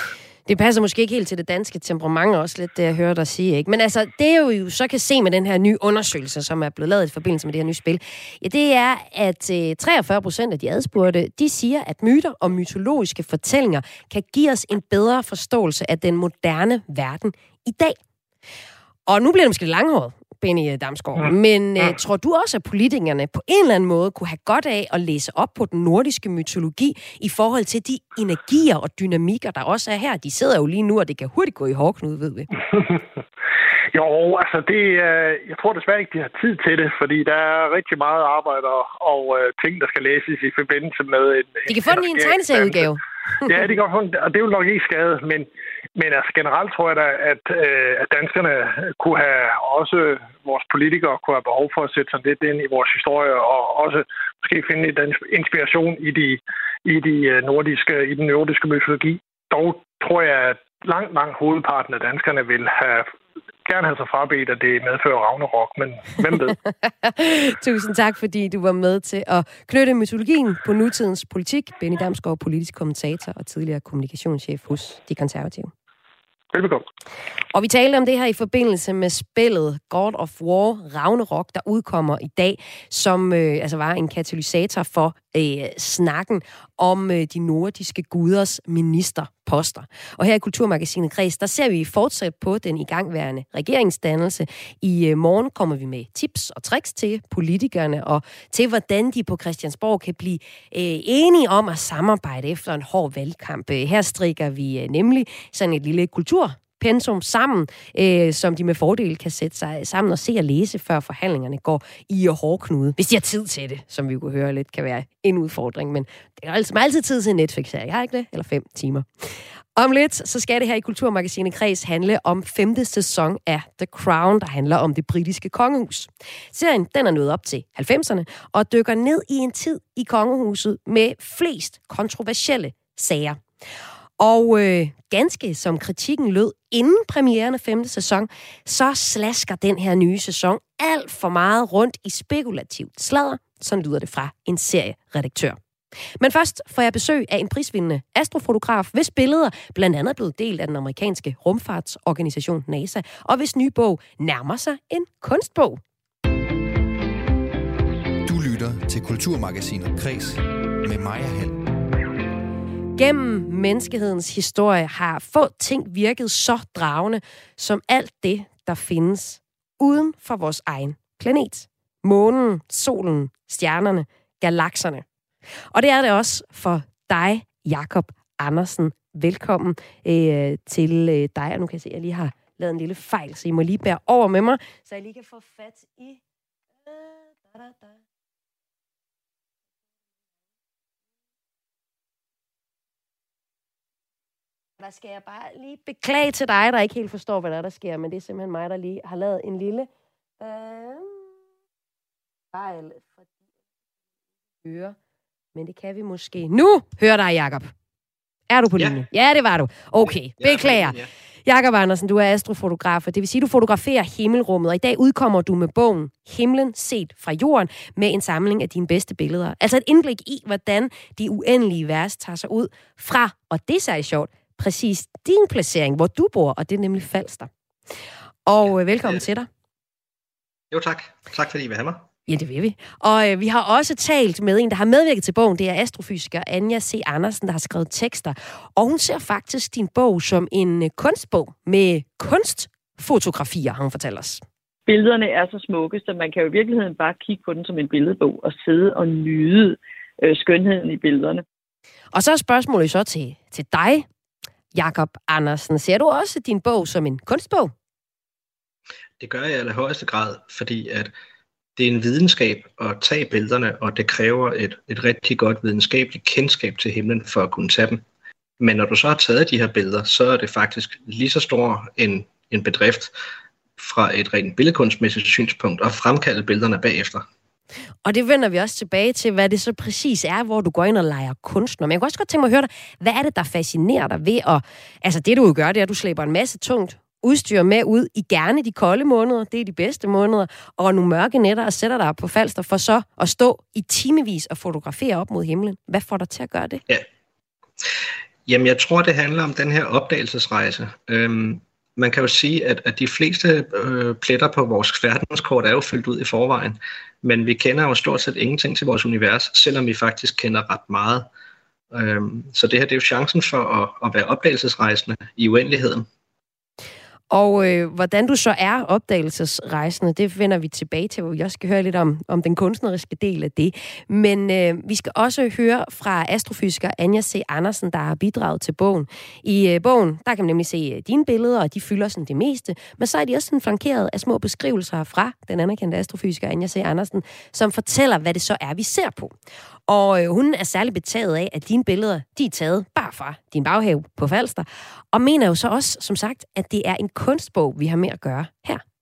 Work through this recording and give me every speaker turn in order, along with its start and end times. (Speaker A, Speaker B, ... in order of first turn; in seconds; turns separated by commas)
Speaker A: 0.5-18.0, Speaker A: 19.1-32.5, Speaker B: 33.9-42.9, Speaker A: 41.7-43.7, Speaker B: 43.4-63.1, Speaker B: 63.6-66.5, Speaker A: 66.8-75.7, Speaker B: 76.5-76.8, Speaker A: 77.5-119.1, Speaker A: 119.7-133.4, Speaker A: 134.2-145.6, Speaker A: 146.2-155.8, Speaker C: 158.2-161.6, Speaker A: 162.9-175.0, Speaker A: 175.7-186.2, Speaker A: 186.8-188.0, Speaker A: 194.8-199.9, Speaker A: 200.4-201.4, Speaker A: 202.5-203.3, Speaker A: 204.6-204.9, Speaker A: 205.5-207.7, Speaker A: 208.5-227.5, Speaker D: 208.8-209.0, Speaker D: 210.0-211.1, Speaker A: 228.4-229.5, Speaker D: 230.7-232.0, Speaker A: 232.3-244.4, Speaker E: 244.9-251.4, Speaker A: 252.1-254.1, Speaker A: 254.7-257.7, Speaker D: 259.2-261.1, Speaker D: 261.8-268.0, Speaker D: 268.6-273.1, Speaker D: 273.8-277.3, Speaker A: 278.0-296.8, Speaker D: 298.5-311.3, Speaker D: 311.9-316.1, Speaker A: 317.3-339.4, Speaker A: 339.9-348.8